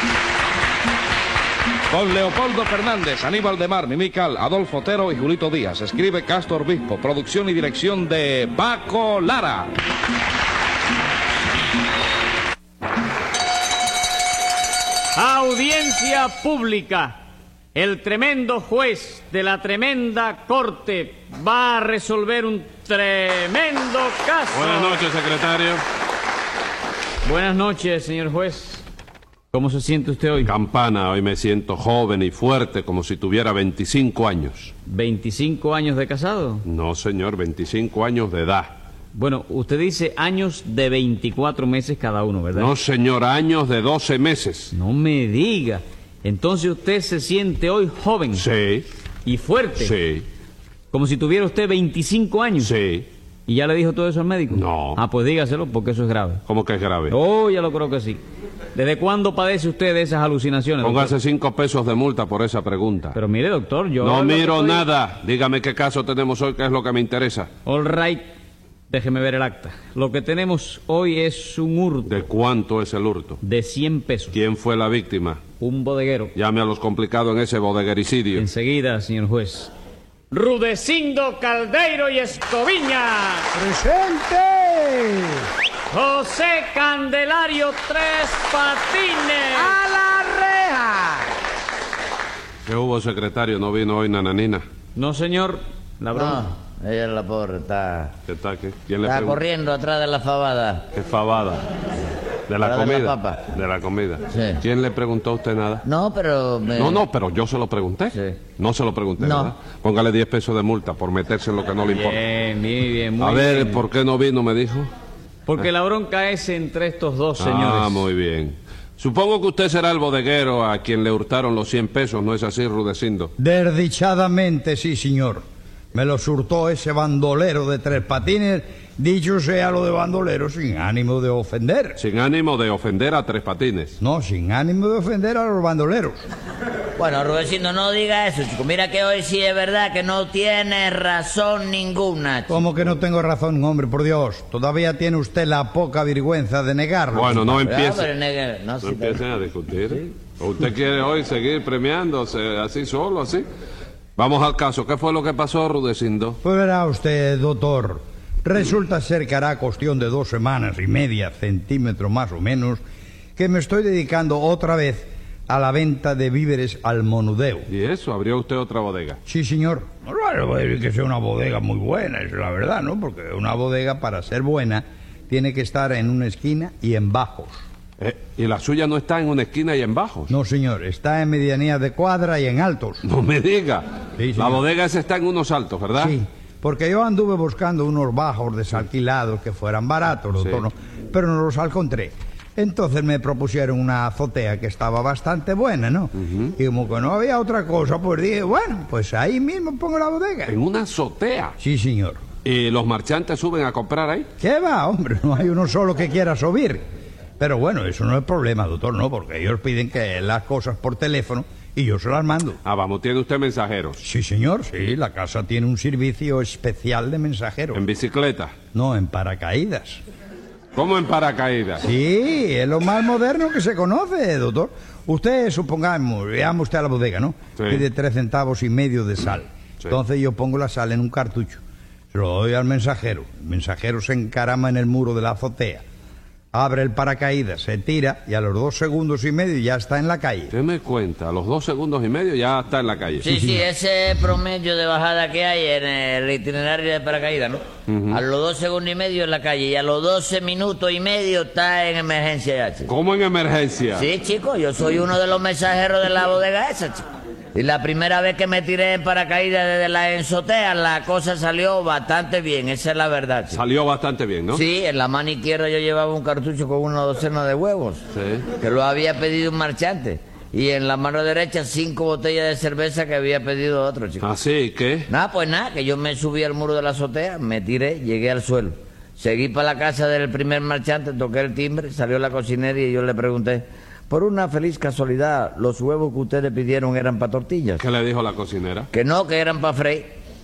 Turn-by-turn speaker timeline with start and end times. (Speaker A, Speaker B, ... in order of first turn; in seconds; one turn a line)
Speaker A: 1.9-9.7
Speaker B: 15.1-17.2
Speaker B: 17.7-25.0
Speaker C: 24.5-25.8
Speaker B: 27.2-28.8
Speaker B: 29.5-30.5
Speaker C: 30.4-34.7
Speaker B: 34.9-36.6
Speaker C: 36.7-38.7
Speaker B: 39.1-42.7
Speaker C: 42.5-44.7
Speaker B: 44.7-48.5
Speaker C: 48.3-48.9
Speaker B: 49.2-50.0
Speaker C: 49.8-50.2
Speaker B: 50.9-52.7
Speaker C: 52.6-53.1
Speaker B: 53.5-56.4
Speaker C: 54.5-55.0
Speaker C: 56.5-57.1
Speaker B: 57.1-58.2
Speaker B: 58.7-61.1
Speaker C: 60.8-63.2
Speaker B: 63.1-64.9
Speaker C: 64.0-67.5
Speaker B: 67.7-68.2
Speaker B: 68.9-72.1
Speaker C: 72.0-73.4
Speaker B: 73.4-74.4
Speaker C: 74.3-75.4
Speaker B: 75.6-76.3
Speaker C: 76.3-78.5
Speaker B: 78.3-79.7
Speaker B: 80.3-83.5
Speaker D: 83.5-85.4
Speaker B: 85.9-89.7
Speaker D: 89.5-91.2
Speaker C: 92.6-94.6
Speaker B: 94.9-96.4
Speaker E: 96.1-98.1
Speaker C: 98.3-99.4
Speaker E: 99.0-100.8
Speaker C: 100.9-101.7
Speaker C: 102.5-105.8
Speaker E: 102.6-103.4
Speaker E: 104.3-104.6
Speaker E: 105.8-107.0
Speaker C: 106.8-112.2
Speaker E: 108.1-108.4
Speaker E: 109.2-109.5
Speaker B: 111.8-113.8
Speaker C: 113.2-114.9
Speaker B: 115.5-118.1
Speaker C: 117.4-123.3
Speaker D: 123.4-125.4
Speaker D: 125.9-132.0
Speaker C: 132.0-134.0
Speaker D: 134.0-136.2
Speaker E: 137.0-142.7
Speaker D: 142.5-147.7
Speaker C: 147.1-148.1
Speaker E: 147.6-149.2
Speaker C: 148.8-153.4
Speaker C: 154.2-156.4
Speaker D: 156.4-162.8
Speaker D: 163.4-167.7
Speaker C: 167.7-169.2
Speaker D: 169.2-177.5
Speaker C: 178.0-180.3
Speaker D: 180.3-183.0
Speaker C: 183.0-183.8
Speaker D: 184.2-184.6
Speaker C: 184.3-186.1
Speaker D: 186.0-200.5
Speaker C: 196.2-196.5
Speaker C: 200.5-201.6
Speaker D: 201.6-202.2
Speaker C: 202.4-204.3
Speaker D: 204.4-206.8
Speaker D: 207.4-212.6
Speaker C: 212.6-214.0
Speaker D: 214.0-217.8
Speaker C: 217.7-218.5
Speaker D: 218.7-220.0
Speaker C: 220.7-221.8
Speaker D: 221.8-231.6
Speaker C: 227.6-227.8
Speaker D: 232.1-235.8
Speaker D: 236.5-240.5
Speaker C: 240.5-243.3
Speaker E: 243.2-252.9
Speaker D: 243.2-243.7
Speaker C: 247.9-248.2
Speaker C: 252.9-254.1
Speaker E: 253.9-263.6
Speaker C: 263.5-264.6
Speaker E: 264.5-268.0
Speaker C: 268.1-268.5
Speaker E: 268.6-274.3
Speaker C: 274.2-275.1
Speaker E: 275.1-287.8
Speaker C: 287.8-288.9
Speaker E: 288.9-290.1